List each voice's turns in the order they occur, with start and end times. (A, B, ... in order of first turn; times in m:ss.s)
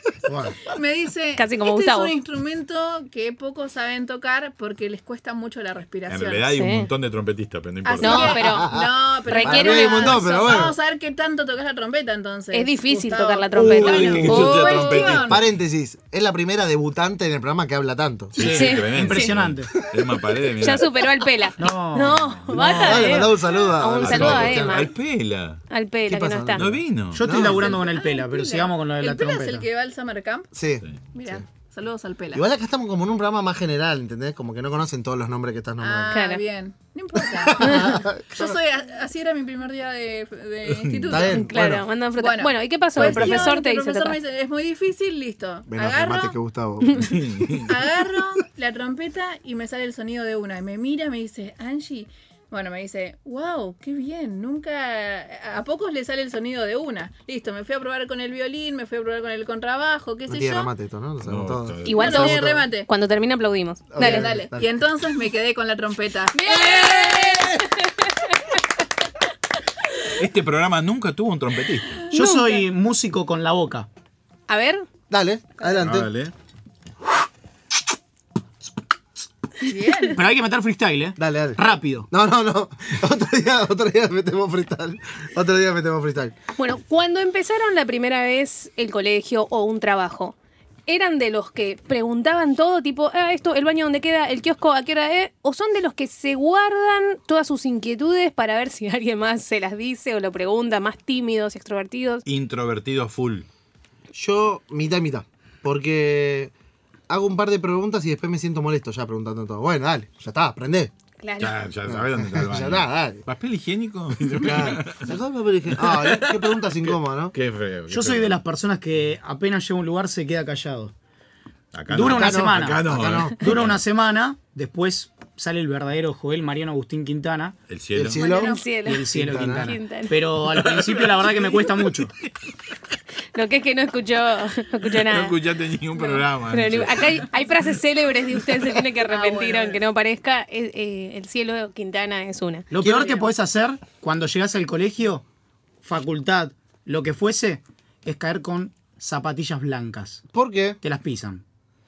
0:00.3-0:00.5 A
0:00.6-0:06.5 B
0:01.4-0:02.1 C
0:06.1-0:08.5 D
0:06.5-0:06.9 C
0:07.8-0:15.4 B
0:08.0-0:08.7 C
0:08.4-0:10.8 E
0:09.2-0:10.6 C
0:12.5-0:15.1 C
0:13.5-0:15.4 D
0:15.2-0:18.4 E
0:18.3-0:20.9 D
0:18.4-0:19.7 A
0:18.4-0:19.3 C
0:20.6-0:24.9 C
0:21.6-0:23.2 A
0:22.5-0:24.9 E
0:24.0-0:25.6 D
0:25.7-0:26.7 C
0:26.1-0:27.7 E
0:26.5-0:27.5 D
0:27.1-0:29.6 A
0:27.3-0:30.5 B
0:30.5-0:31.4 E
0:31.1-0:32.4 B
0:32.3-0:36.2 E
0:35.8-0:41.5 B
0:36.1-0:36.4 C
0:37.3-0:38.6 E
0:37.6-0:37.9 C
0:40.7-0:41.2 D
0:41.1-0:41.8 E
0:41.3-0:44.2 C
0:42.2-0:46.3 B
0:43.0-0:43.4 E
0:45.7-0:47.2 E
0:47.0-0:47.7 D
0:47.6-1:00.7 B
1:00.3-1:02.6 E
1:01.2-1:02.4 D
1:01.8-1:04.3 C
1:01.9-1:02.9 B
1:03.9-1:04.7 E
1:04.0-1:07.5 B
1:06.3-1:08.4 C
1:10.2-1:12.0 D
1:12.1-1:12.6 C
1:12.1-1:13.9 A
1:14.5-1:14.8 C
1:15.1-1:16.1 E
1:15.7-1:16.3 D
1:19.6-1:20.2 B
1:20.1-1:22.1 A
1:21.2-1:26.4 E
1:26.6-1:30.4 C
1:30.9-1:42.2 C
1:42.2-1:43.4 D
1:44.1-1:46.5 E
1:47.1-1:50.9 E
1:51.2-1:51.6 C
1:51.4-1:55.1 D
1:51.9-1:53.2 E
1:54.4-1:57.3 E
1:55.8-1:58.4 D
1:57.9-2:00.9 A
2:01.7-2:03.8 D
2:01.9-2:02.8 A
2:02.0-2:03.4 E
2:03.4-2:07.6 A
2:07.7-2:08.2 D
2:07.9-2:08.6 E
2:08.1-2:08.7 B
2:08.2-2:09.1 C
2:08.8-2:12.1 A
2:09.1-2:09.7 E
2:09.6-2:10.2 C
2:10.5-2:11.9 D
2:13.3-2:15.4 C
2:15.0-2:17.2 D
2:16.5-2:22.7 C
2:19.0-2:19.8 B
2:22.7-2:25.2 A
2:22.8-2:23.1 E
2:25.8-2:30.2 A
2:30.3-2:30.8 E
2:30.8-2:31.4 A